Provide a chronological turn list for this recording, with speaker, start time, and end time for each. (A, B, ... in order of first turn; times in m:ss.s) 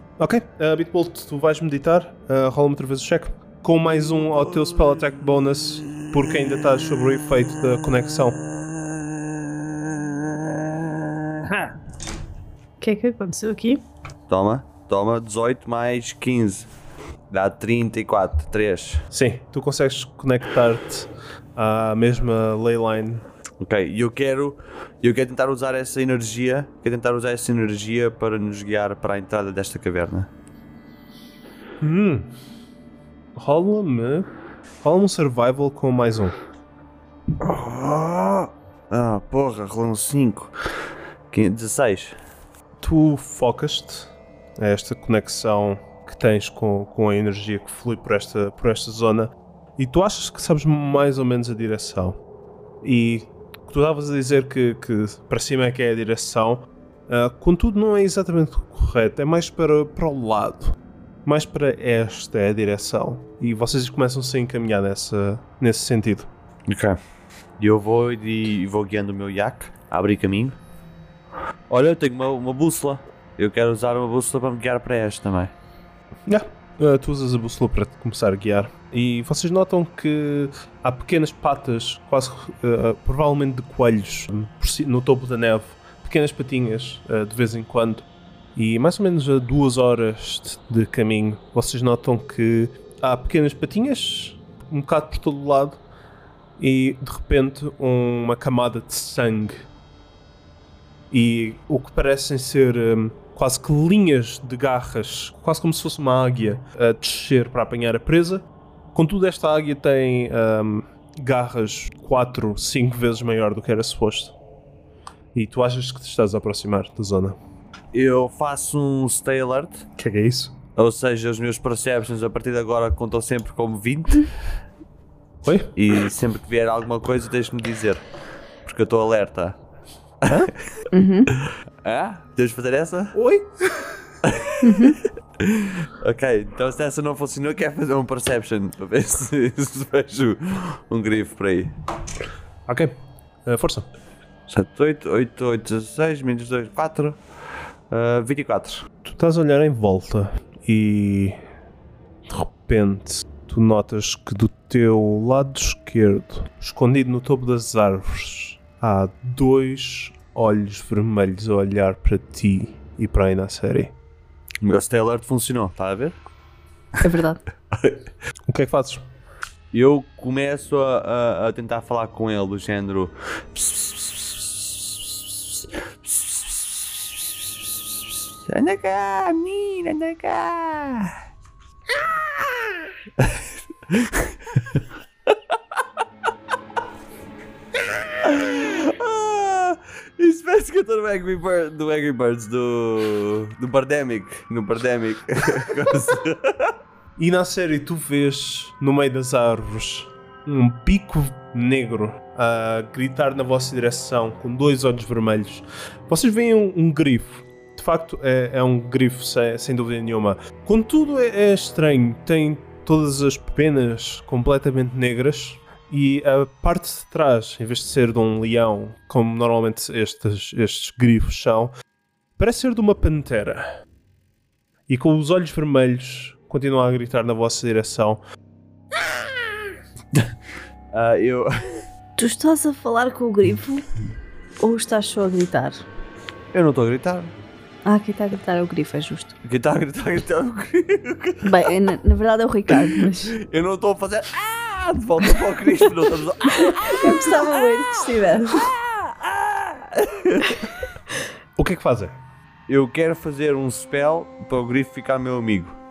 0:00.2-0:08.4 A
0:08.6-0:11.5 B
0:12.8-0:13.8 C
0:14.3-0:16.7 B
0:17.3-0:19.0 B
0:19.1-0:23.2 A
0:23.6-0:30.3 B
0:31.8-0:32.3 A
0:33.4-0:34.3 A
0:34.8-0:36.3 A
0:37.4-0:40.5 B
0:41.3-0:42.2 B
0:42.8-0:52.2 A
0:52.8-1:06.3 A
1:06.7-1:07.0 B
1:07.6-1:10.6 B
1:11.7-1:15.5 B
1:16.3-1:35.8 A
1:36.6-1:39.6 A
1:41.1-1:54.3 A
1:55.3-1:57.4 A
1:57.9-1:59.8 B
2:00.0-2:00.5 A
2:00.8-2:04.3 B
2:05.4-2:05.7 A
2:05.8-2:08.0 B
2:08.6-2:09.6 B
2:10.2-2:10.7 B
2:10.9-2:11.3 C
2:11.4-2:13.1 B
2:13.1-2:14.0 A
2:14.2-2:21.7 B
2:14.6-2:15.0 C
2:22.7-2:22.9 A
2:23.4-2:23.9 A
2:24.5-2:27.2 B
2:27.9-2:28.8 B
2:29.0-2:31.4 A
2:32.3-2:43.9 A
2:44.6-2:46.2 B
2:47.0-2:47.4 C
2:47.7-2:48.0 B
2:48.5-2:49.0 A
2:49.7-3:01.2 B
3:01.9-3:05.8 B
3:07.8-3:16.7 B
3:17.2-3:41.7 A
3:42.4-3:43.7 A
3:44.9-3:48.2 A
3:50.9-3:51.8 B
3:52.2-3:53.9 C
3:54.6-3:55.8 C
3:56.5-3:57.3 B
3:57.8-3:59.3 C
3:59.4-4:01.7 B
4:01.4-4:03.4 C
4:02.7-4:10.7 B
4:06.5-4:08.7 C
4:11.6-4:12.1 A
4:12.7-4:15.7 B